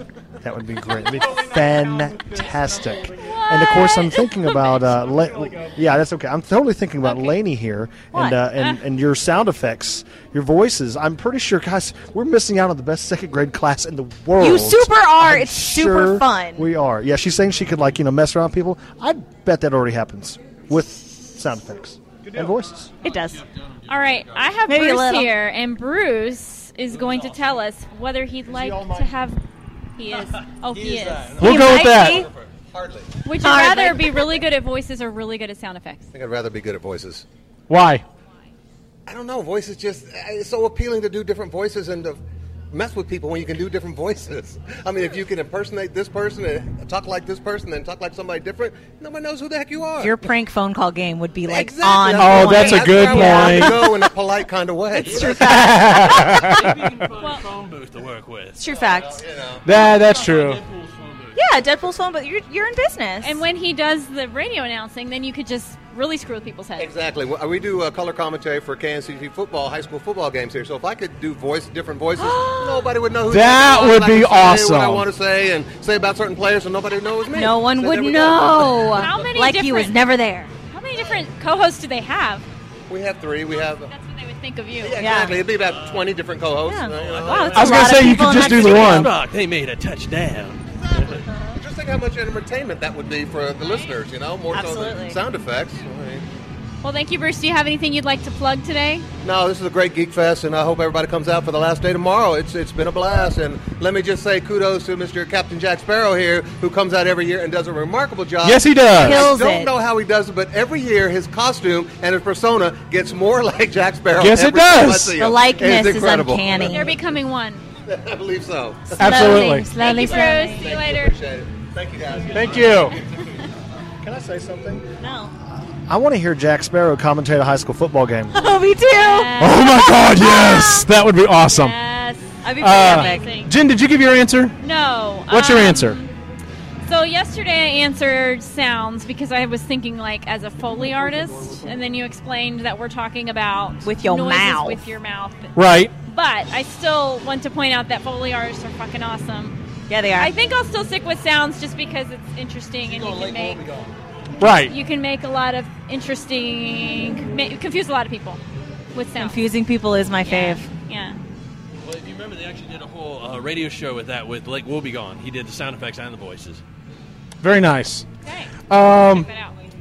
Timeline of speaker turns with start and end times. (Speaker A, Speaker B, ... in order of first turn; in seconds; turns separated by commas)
Speaker A: 0.4-22.9, Speaker B: 3.2-4.9, Speaker C: 8.1-8.4, Speaker C: 14.4-16.7, Speaker D: 22.3-24.7, Speaker C: 23.0-23.4, Speaker B: 23.9-29.4, Speaker C: 24.7-25.3, Speaker D: 26.9-27.4, Speaker A: 28.5-29.1, Speaker B: 30.0-31.5, Speaker D: 30.4-31.6, Speaker E: 31.4-32.3, Speaker C: 31.4-32.3, Speaker F: 31.8-33.1, Speaker B: 33.2-36.1, Speaker C: 33.4-34.3, Speaker F: 36.1-37.2, Speaker E: 37.7-38.0, Speaker F: 39.1-42.2, Speaker F: 42.7-50.2, Speaker C: 50.0-53.9, Speaker F: 51.5-55.5, Speaker E: 52.2-53.9, Speaker C: 55.0-56.3, Speaker D: 55.0-58.6, Speaker E: 55.3-56.8, Speaker B: 57.2-57.4, Speaker C: 58.6-59.2, Speaker F: 58.6-59.7, Speaker E: 59.6-60.6, Speaker D: 59.7-61.4, Speaker C: 61.4-63.4, Speaker B: 63.2-66.9, Speaker F: 66.8-79.1, Speaker C: 72.2-72.9, Speaker E: 73.3-75.1, Speaker C: 77.3-80.5, Speaker B: 79.0-80.0, Speaker B: 80.7-82.5, Speaker F: 82.9-83.9, Speaker B: 83.9-85.0, Speaker F: 84.8-87.7, Speaker C: 85.0-85.4, Speaker D: 85.6-86.1, Speaker C: 86.7-89.1, Speaker D: 86.8-91.2, Speaker E: 87.5-89.1, Speaker F: 90.9-96.2, Speaker B: 93.6-93.9, Speaker C: 94.5-95.2, Speaker B: 96.8-99.1, Speaker F: 99.2-116.9, Speaker E: 108.4-109.3, Speaker C: 109.0-109.7, Speaker E: 114.2-115.2, Speaker C: 115.2-116.9, Speaker B: 116.5-117.6, Speaker F: 117.8-123.1, Speaker C: 119.0-120.7, Speaker E: 119.0-119.7, Speaker B: 119.1-121.2, Speaker E: 122.3-123.0, Speaker A: 124.0-124.9, Speaker C: 125.0-125.3, Speaker A: 125.5-128.4, Speaker C: 128.3-130.9, Speaker B: 128.9-130.6, Speaker E: 129.4-131.8, Speaker B: 131.5-133.5, Speaker C: 132.4-133.4, Speaker E: 132.6-134.6, Speaker B: 134.6-136.1, Speaker E: 135.3-136.0, Speaker B: 136.8-149.6, Speaker C: 143.8-144.8, Speaker E: 145.6-145.9, Speaker C: 149.9-150.3, Speaker B: 150.2-153.6, Speaker D: 152.8-153.9, Speaker E: 154.4-154.7, Speaker B: 154.4-158.4, Speaker B: 158.9-159.4, Speaker C: 159.2-160.7, Speaker B: 160.2-161.2, Speaker D: 161.8-166.6, Speaker E: 167.4-168.1, Speaker B: 168.2-169.6, Speaker E: 168.7-169.3